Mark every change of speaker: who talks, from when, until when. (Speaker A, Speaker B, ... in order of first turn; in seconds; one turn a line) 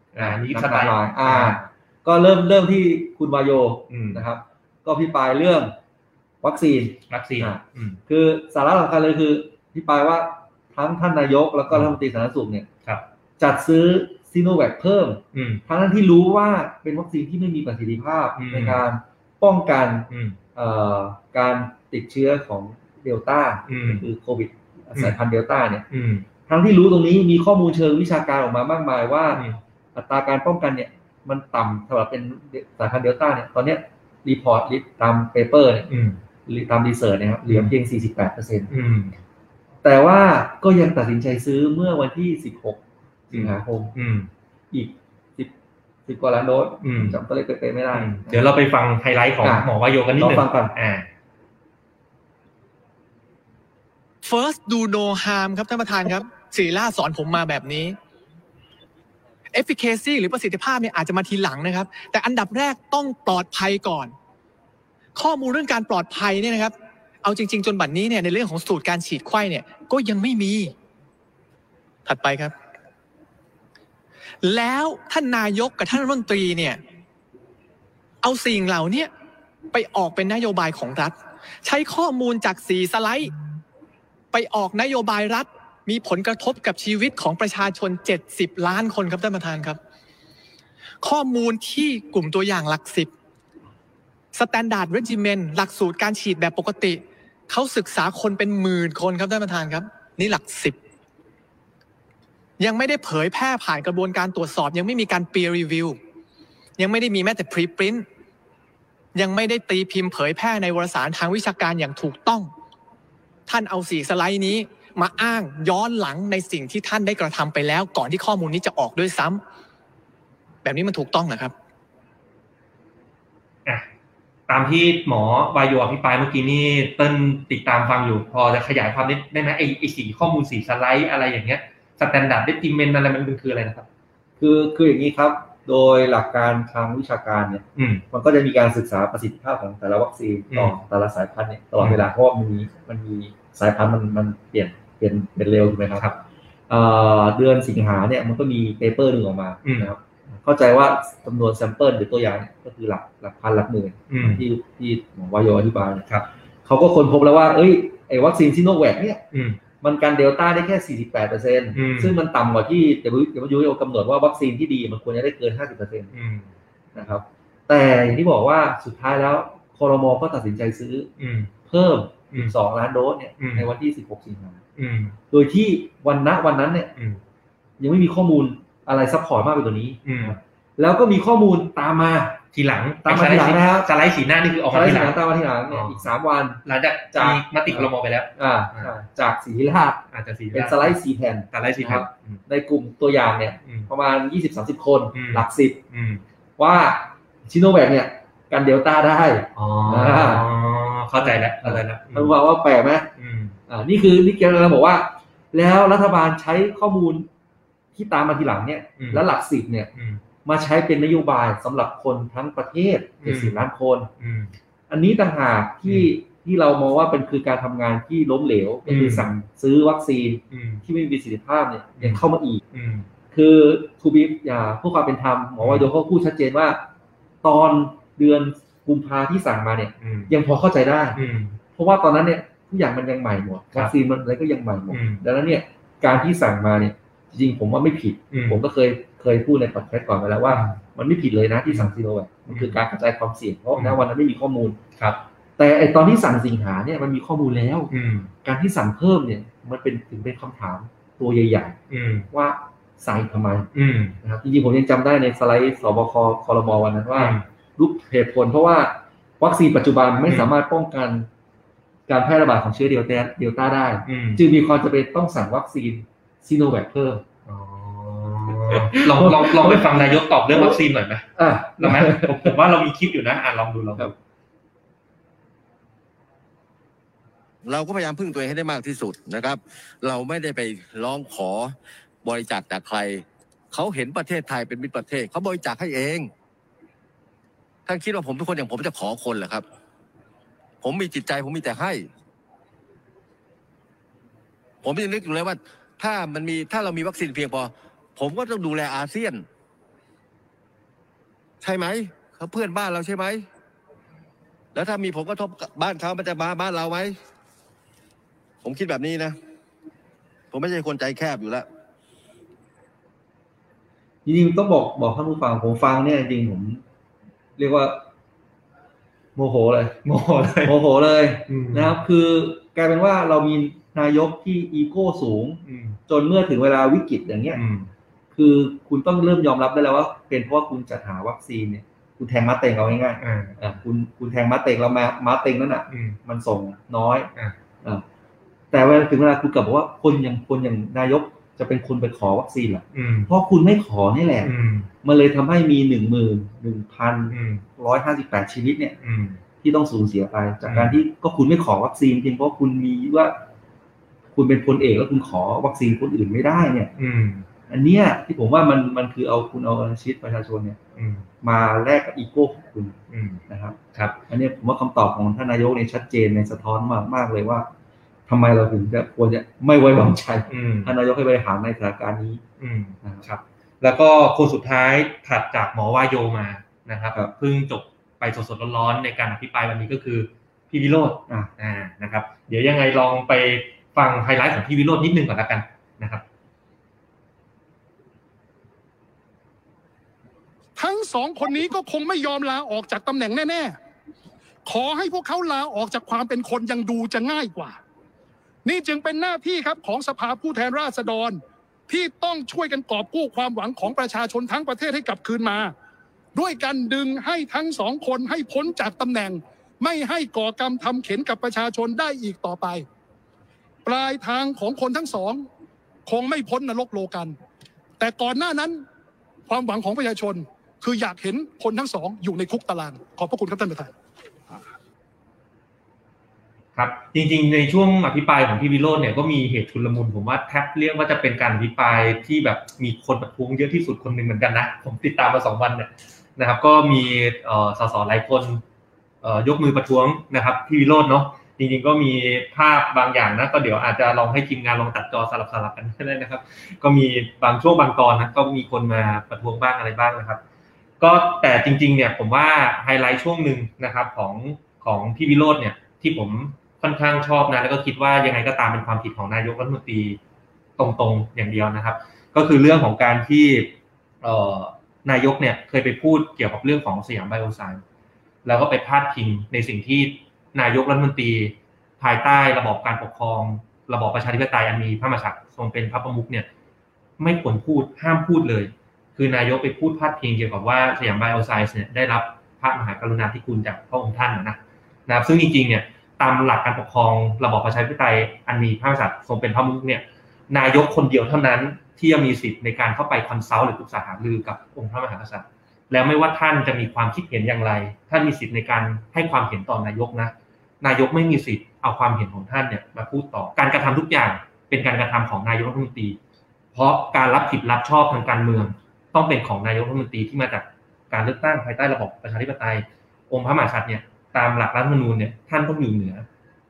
Speaker A: 0.1-1.6
Speaker B: 0.2-5.7
Speaker A: 3.9-4.2
Speaker B: 6.4-12.7
Speaker A: 7.1-8.0
Speaker B: 13.4-25.8
Speaker A: 15.3-15.6
Speaker A: 18.4-18.8
Speaker A: 20.1-20.4
Speaker A: 23.7-24.0
Speaker A: 25.9-26.2
Speaker B: 26.5-29.4
Speaker A: 29.3-29.6
Speaker B: 29.9-35.9
Speaker A: 35.9-36.2
Speaker B: 36.5-38.7
Speaker A: 37.5-37.7
Speaker A: 38.7-39.2
Speaker B: 39.8-43.9
Speaker A: 43.3-44.3
Speaker B: 44.7-45.5
Speaker B: 46.0-48.5
Speaker A: 46.8-47.2
Speaker A: 47.9-51.1
Speaker B: 49.4-50.7
Speaker C: 54.2-58.0
Speaker C: 59.5-64.1
Speaker C: 65.1-70.7
Speaker C: 72.0-72.5
Speaker C: 74.4-76.8
Speaker C: 78.2-79.1
Speaker C: 79.7-83.3
Speaker C: 84.3-89.8
Speaker C: 91.0-93.1
Speaker C: 94.3-100.8
Speaker C: 102.6-106.0
Speaker C: 106.8-108.0
Speaker C: 109.1-112.5
Speaker C: 113.5-119.4
Speaker C: 120.6-121.5
Speaker A: 124.5-133.9
Speaker B: 134.4-146.1
Speaker A: 137.8-138.0
Speaker B: 146.7-156.1
Speaker A: 149.6-149.9
Speaker A: 154.1-154.4
Speaker B: 156.6-159.2
Speaker A: 159.3-159.6
Speaker B: 159.8-166.1
Speaker A: 161.7-162.2
Speaker A: 166.1-166.5
Speaker B: 166.9-171.1
Speaker A: 171.2-171.5
Speaker B: 171.7-174.6
Speaker A: 173.4-173.7
Speaker A: 174.8-175.2
Speaker B: 175.3-176.9
Speaker B: 177.8-182.4
Speaker A: 180.0-180.3
Speaker A: 182.5-185.2
Speaker B: 183.0-183.9
Speaker B: 184.7-186.6
Speaker A: 185.7-186.1
Speaker A: 186.7-188.9
Speaker B: 187.1-190.0
Speaker A: 190.1-191.0
Speaker B: 190.5-195.8
Speaker A: 191.5-192.4
Speaker A: 195.1-196.2
Speaker B: 196.6-200.5
Speaker A: 199.6-202.3
Speaker B: 201.2-203.1
Speaker A: 203.2-203.6
Speaker B: 203.7-207.3
Speaker B: 207.9-209.9
Speaker A: 209.0-209.2
Speaker A: 209.9-210.2
Speaker B: 210.4-214.1
Speaker A: 213.2-213.6
Speaker A: 214.2-214.5
Speaker B: 214.9-222.6
Speaker A: 215.8-216.1
Speaker A: 218.8-219.3
Speaker A: 220.5-220.8
Speaker A: 222.0-223.1
Speaker B: 223.3-226.8
Speaker A: 225.6-225.9
Speaker B: 227.4-231.2
Speaker A: 230.0-230.3
Speaker A: 231.1-231.6
Speaker B: 231.7-244.8
Speaker A: 234.9-235.2
Speaker A: 238.3-238.6
Speaker A: 240.5-240.8
Speaker A: 242.5-242.8
Speaker B: 245.6-247.9
Speaker A: 247.9-248.3
Speaker B: 248.4-251.8
Speaker A: 251.9-252.3
Speaker B: 252.3-253.7
Speaker A: 253.7-254.2
Speaker B: 254.2-261.3
Speaker A: 257.1-257.4
Speaker B: 262.1-267.2
Speaker A: 264.1-264.4
Speaker A: 267.5-271.2
Speaker B: 268.5-270.8
Speaker B: 271.4-272.6
Speaker A: 271.8-274.1
Speaker D: 277.6-281.7
Speaker D: 282.2-286.3
Speaker D: 287.9-289.6
Speaker D: 290.8-292.0
Speaker D: 294.8-299.4
Speaker D: 301.6-303.4
Speaker D: 304.7-307.1
Speaker D: 308.6-309.3
Speaker D: 310.5-311.6
Speaker B: 314.2-316.8
Speaker B: 317.6-318.0
Speaker B: 319.4-320.0
Speaker A: 320.0-320.8
Speaker B: 320.6-327.6
Speaker A: 321.5-322.0
Speaker A: 325.6-326.0
Speaker A: 327.5-327.9
Speaker B: 328.3-337.3
Speaker A: 333.2-333.8
Speaker A: 335.9-336.2
Speaker B: 338.7-344.5
Speaker A: 342.9-343.3
Speaker A: 344.4-344.9
Speaker B: 345.0-349.0
Speaker A: 347.3-347.6
Speaker A: 349.0-349.4
Speaker B: 349.6-353.4
Speaker A: 350.6-351.0
Speaker B: 354.3-356.9
Speaker A: 357.0-357.4
Speaker B: 357.7-360.8
Speaker A: 360.9-361.3
Speaker B: 361.4-363.0
Speaker A: 363.1-363.4
Speaker B: 363.5-363.8
Speaker B: 364.3-367.7
Speaker B: 368.3-372.4
Speaker A: 370.5-370.9
Speaker A: 372.6-386.2
Speaker E: 390.8-393.8
Speaker E: 394.6-397.8
Speaker E: 398.6-405.7
Speaker E: 406.3-412.8
Speaker E: 413.8-415.4
Speaker E: 416.1-417.3
Speaker E: 418.0-418.8
Speaker E: 419.5-423.9
Speaker A: 426.8-438.6
Speaker A: 439.2-450.4
Speaker A: 451.0-460.2
Speaker A: 460.8-467.8
Speaker A: 468.4-476.5
Speaker A: 477.2-506.2
Speaker A: 506.7-516.2